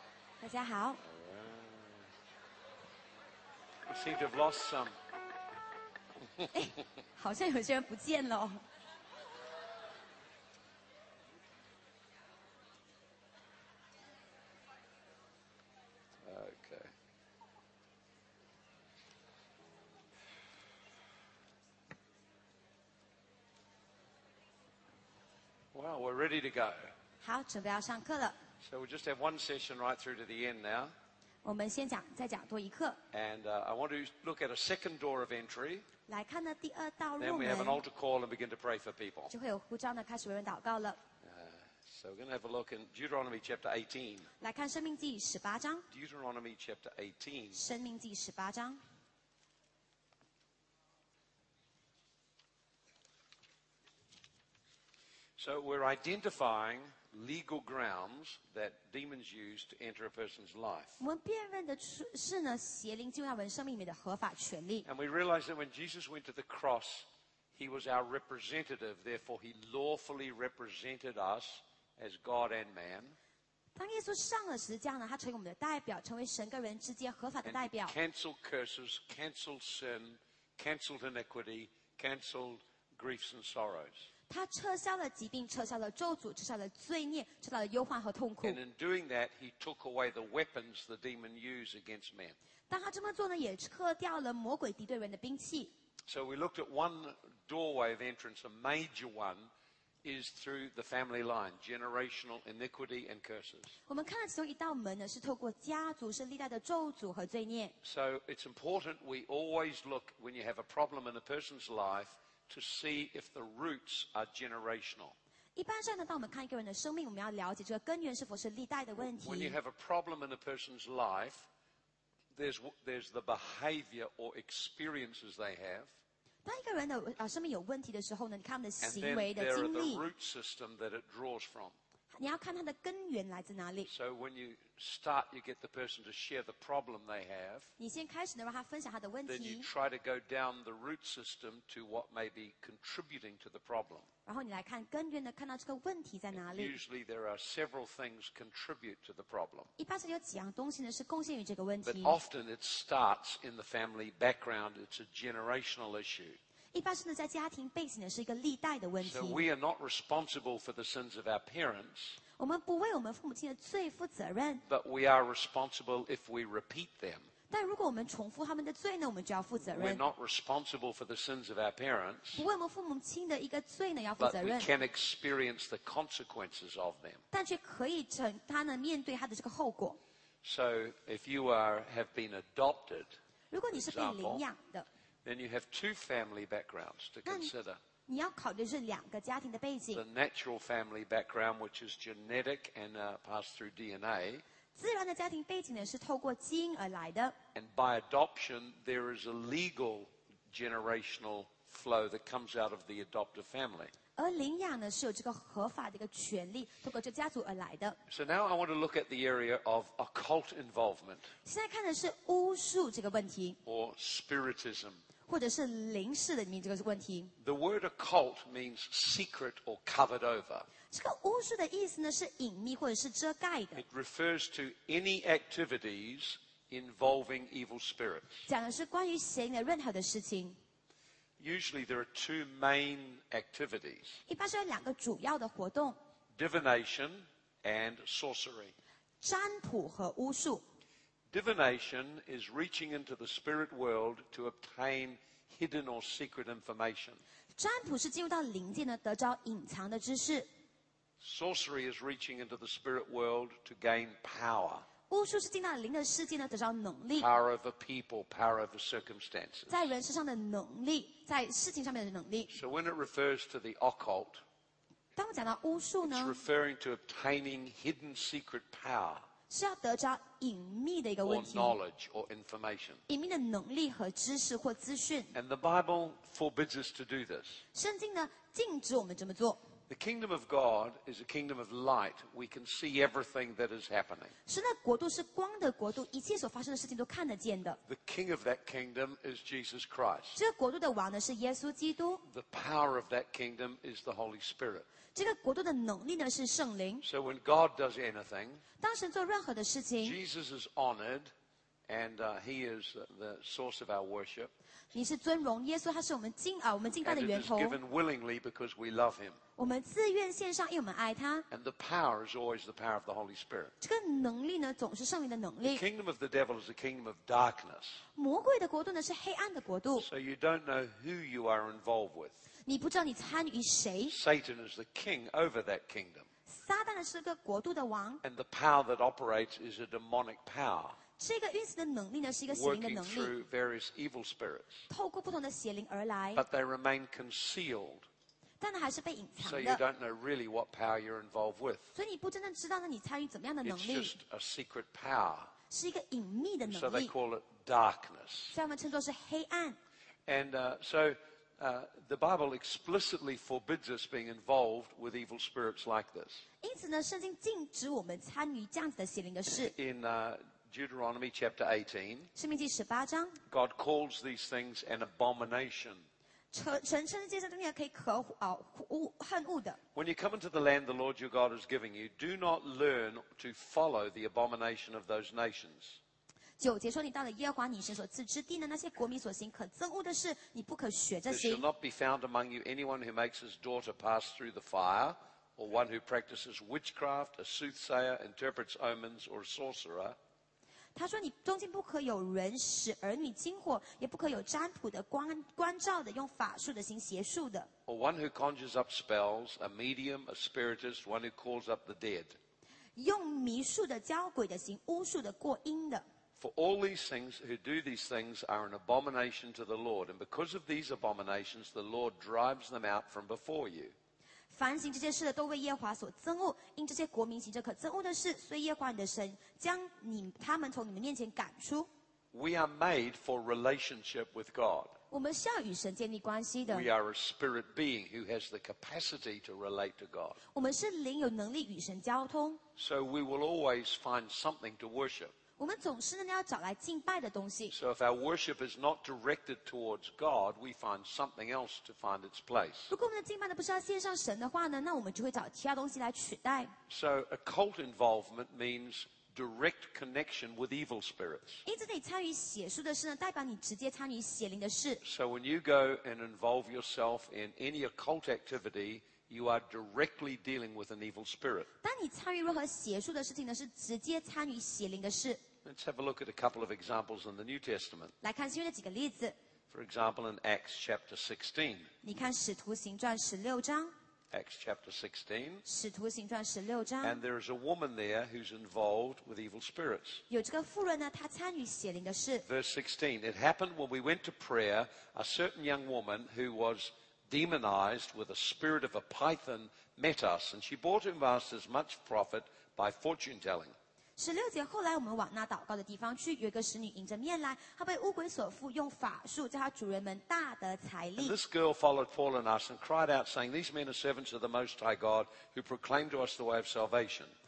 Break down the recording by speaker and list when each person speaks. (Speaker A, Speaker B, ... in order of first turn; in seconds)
Speaker A: 0.4-1.0, 6.5-8.6, 27.2-28.4, 31.4-33.0, 36.1-37.8, 39.3-41.0, 44.4-45.9, 47.5-48.8, 61.0-64.8, 73.8-77.9, 84.3-88.6, 92.7-95.7, 103.9-107.7, 115.5-119.5, 126.4-130.0, 132.1-133.9, 137.8-139.7, 144.2-146.7, 149.8-152.2, 156.7-159.4, 162.4-164.6, 167.5-170.0, 172.3-174.7, 177.3-180.0, 183.5-184.9, 187.2-187.5, 188.1-190.0, 194.8-197.3, 204.2-208.0, 211.4-213.6, 215.3-217.3, 220.9-223.8, 228.5-230.6, 234.3-236.0, 239.2-240.6, 247.6-250.5, 255.1-257.3, 259.7-262.5, 265.1-266.4, 269.5-271.8, 273.1-275.3, 277.7-279.6, 284.5-287.8, 290.3-292.2, 295.1-297.1, 298.8-300.2, 304.9-307.8, 309.6-311.4, 313.8-315.8, 318.1-320.1, 322.6-324.1, 326.5-328.2, 331.2-333.3, 334.9-336.4, 338.6-339.8, 341.9-344.1, 345.7-347.1, 348.5-349.8, 356.6-359.7, 362.3-363.4, 366.5-369.8, 376.6-381.6, 390.9-397.7, 402.9-406.1, 414.5-421.9, 425.1-426.9, 430.5-432.6, 435.6-437.7, 442.9-446.8, 451.6-455.0, 461.8-465.4, 468.2-469.4, 472.0-473.9, 475.6-477.2, 480.3-482.4, 494.2-501.4
Speaker B: 1.0-2.1, 3.8-5.0, 16.2-16.9, 25.7-26.9, 28.6-30.9, 33.1-35.9, 37.2-39.3, 41.2-44.3, 45.9-47.6, 55.4-61.0, 64.8-73.2, 77.4-84.1, 88.4-92.4, 96.1-99.5, 100.0-103.7, 107.8-115.2, 119.0-121.5, 122.3-125.9, 128.8-131.8, 133.9-137.7, 139.2-144.1, 146.3-149.7, 151.8-156.4, 159.0-162.2, 164.7-167.3, 169.7-172.4, 174.2-177.2, 180.4-183.2, 183.7-184.4, 185.2-187.8, 189.9-194.4, 197.5-203.9, 208.1-211.3, 213.6-215.0, 217.4-220.7, 223.7-228.4, 231.4-234.2, 236.4-238.8, 241.3-247.2, 251.2-254.9, 257.2-259.8, 262.5-264.4, 266.0-269.2, 271.2-273.0, 275.3-277.6, 279.9-284.3, 287.9-290.4, 292.3-294.9, 297.0-298.6, 300.0-301.3, 301.9-304.5, 307.0-309.4, 311.5-313.7, 315.6-318.0, 320.0-322.4, 324.1-326.3, 328.2-331.0, 332.5-334.8, 336.3-338.1, 339.4-341.9, 343.6-345.5, 346.6-348.6, 350.3-356.4, 359.5-362.3, 363.5-366.1, 369.9-376.0, 381.3-390.2, 397.9-402.4, 406.4-413.9, 422.3-424.9, 426.6-430.4, 432.8-435.3, 437.7-442.9, 446.9-451.6, 455.0-461.7, 465.6-468.1, 469.7-471.9, 474.3-475.6, 477.0-480.2, 482.4-493.8, 501.2-507.3